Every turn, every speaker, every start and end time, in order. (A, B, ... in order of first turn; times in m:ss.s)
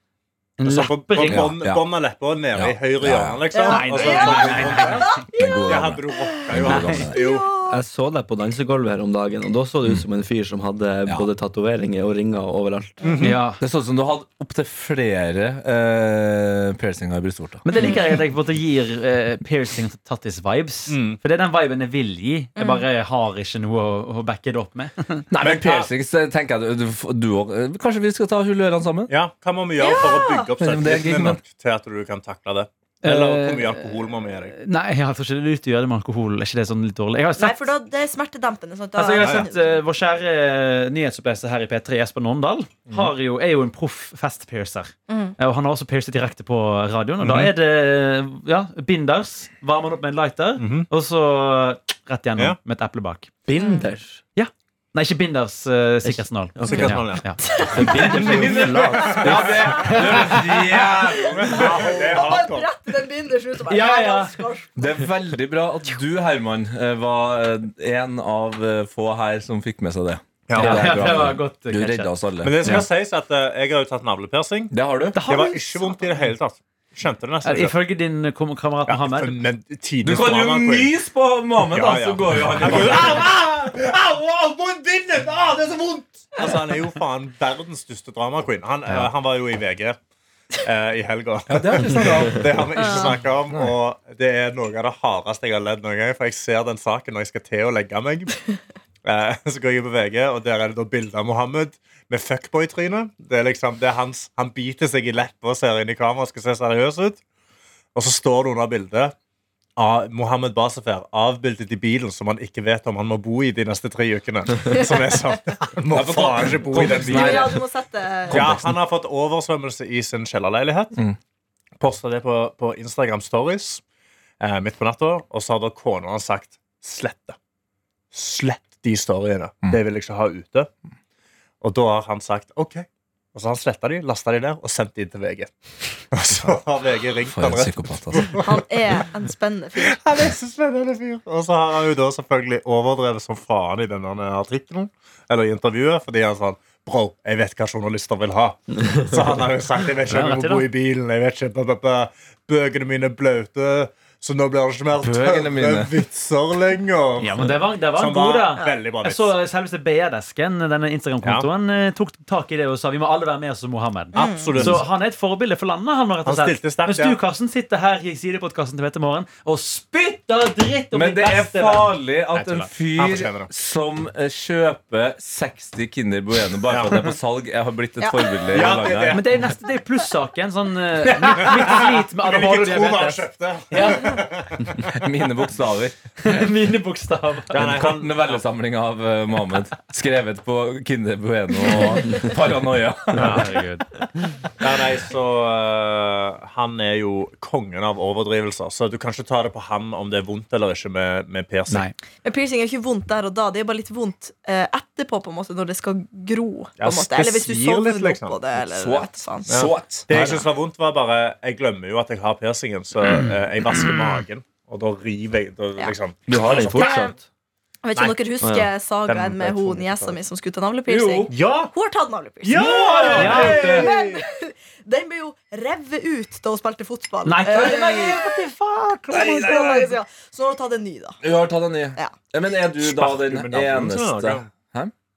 0:00.6-0:01.6 A
0:00.6-0:07.5 B
0:01.2-0:01.9 C
0:02.5-0:03.4 C
0:03.5-0:07.8 D
0:03.6-0:05.2 A
0:05.3-0:07.2 C
0:07.7-0:13.1 E
0:13.0-0:13.4 B
0:13.2-0:13.6 A
0:13.6-0:17.6 C
0:17.6-0:25.2 A
0:17.8-0:18.1 D
0:20.9-0:21.2 B
0:22.6-0:22.8 D
0:25.3-0:29.1 C
0:25.4-0:25.9 B
0:29.1-0:34.5 B
0:29.8-0:30.5 D
0:30.6-0:31.4 C
0:33.0-0:37.6 A
0:37.4-0:39.8 D
0:39.0-0:53.4 A
0:39.1-0:39.5 B
0:45.1-0:45.4 D
0:47.2-0:47.5 B
0:50.6-0:50.9 B
0:53.5-0:54.2 E
0:53.6-0:53.9 D
0:54.4-0:57.4 A
0:56.0-0:57.0 E
0:56.6-1:02.7 B
0:57.4-0:57.9 D
0:57.6-0:59.3 E
0:58.1-1:01.7 C
0:59.8-1:00.6 A
1:01.0-1:05.0 D
1:03.7-1:04.4 A
1:04.8-1:12.8 C
1:10.5-1:11.0 B
1:10.5-1:12.1 A
1:12.4-1:17.8 B
1:12.6-1:12.9 A
1:14.7-1:15.2 C
1:15.1-1:16.1 A
1:17.4-1:19.4 A
1:18.9-1:20.9 B
1:20.0-1:23.2 C
1:21.6-1:30.0 B
1:30.6-1:38.4 B
1:31.5-1:33.7 C
1:32.8-1:33.1 D
1:39.0-1:47.2 B
1:47.9-1:49.1 B
1:49.8-1:57.6 B
1:55.9-1:57.6 C
1:57.0-1:58.4 D
1:58.3-2:01.0 B
1:58.3-1:58.6 C
2:01.8-2:03.8 B
2:04.4-2:07.4 B
2:08.1-2:10.7 B
2:11.6-2:15.5 B
2:16.1-2:18.4 B
2:17.2-2:18.5 C
2:18.4-2:20.0 D
2:19.8-2:39.3 B
2:30.1-2:30.6 A
2:35.0-2:36.0 C
2:37.2-2:51.9 A
2:44.1-2:44.5 D
2:44.1-2:44.8 B
2:46.2-2:47.2 B
2:50.9-2:59.2 C
2:52.3-2:53.5 B
2:56.7-2:57.1 B
2:58.0-2:58.4 D
2:58.5-2:59.3 B
2:59.1-3:04.2 A
3:01.4-3:04.9 B
3:04.9-3:06.0 C
3:06.2-3:07.8 A
3:07.5-3:08.4 B
3:07.6-3:13.4 C
3:13.2-3:13.6 B
3:13.2-3:13.8 A
3:14.6-3:21.8 B
3:22.2-3:29.5 D
3:26.8-3:28.4 B
3:28.6-3:30.1 C
3:29.5-3:37.0 B
3:30.1-3:30.4 A
3:36.3-3:37.2 E
3:36.7-3:37.1 D
3:37.8-3:48.3 D
3:38.4-3:38.7 E
3:39.1-3:40.1 B
3:40.9-3:41.3 C
3:41.3-3:41.7 B
3:42.4-3:44.2 B
3:42.5-3:43.9 C
3:43.1-3:43.8 A
3:47.2-3:49.6 A
3:49.1-3:49.9 C
3:49.1-3:51.2 D
3:51.2-3:54.9 C
3:52.8-3:54.5 B